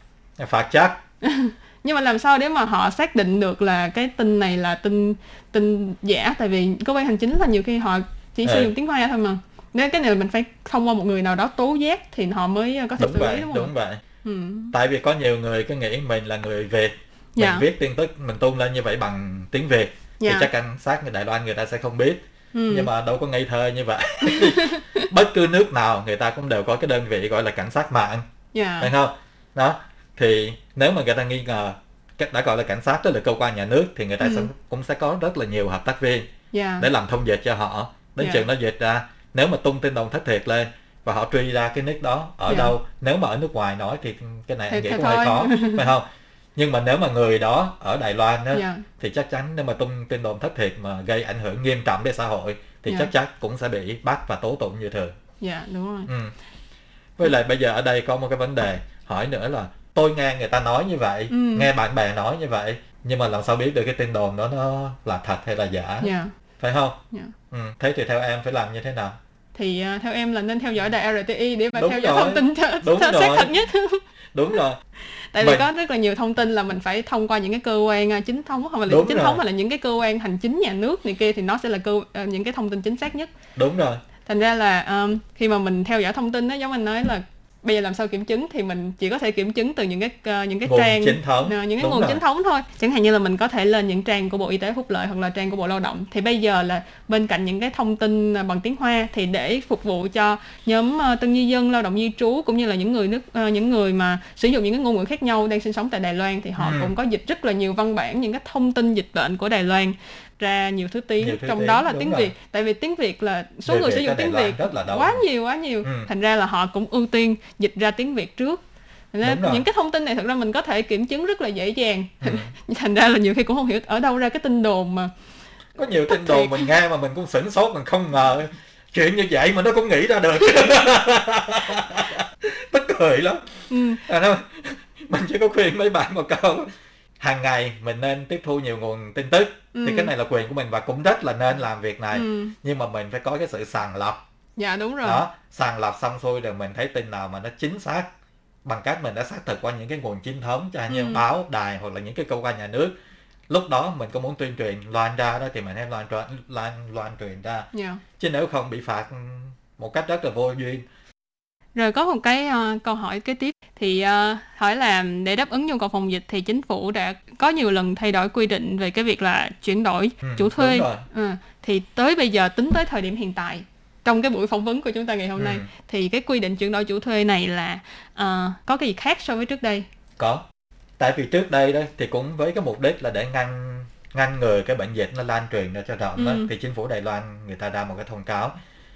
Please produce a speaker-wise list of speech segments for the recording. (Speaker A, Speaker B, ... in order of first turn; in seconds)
Speaker A: 0.4-1.0, 8.4-8.7, 13.0-14.0, 14.7-28.2, 28.8-36.3, 36.8-55.1, 56.1-56.3, 57.2-67.0, 67.5-69.2, 71.8-73.5, 74.3-74.8, 75.4-75.7, 78.9-79.4, 83.6-84.0, 90.7-92.2, 106.6-106.9, 111.2-112.3, 113.7-115.2, 115.8-116.1, 119.2-119.6, 122.2-122.5, 125.8-136.7, 137.2-144.2, 145.0-148.1, 148.6-152.9, 153.5-157.7, 158.2-160.8, 170.2-171.0, 175.4-175.7, 180.2-180.4, 181.0-188.5
Speaker B: 1.2-13.7, 14.2-14.7, 17.4-17.6, 20.2-20.5, 22.5-22.9, 28.5-28.9, 34.2-34.5, 36.5-36.9, 38.2-38.4, 42.5-42.7, 44.7-45.9, 48.5-48.8, 55.4-56.1, 61.3-61.7, 66.0-66.3, 69.5-74.0, 75.3-83.3, 84.2-118.6, 119.1-125.1, 126.1-126.7, 133.7-134.0, 139.7-140.1, 142.1-142.5, 144.6-145.2, 150.9-151.2, 157.7-158.0, 161.8-179.9, 186.2-186.5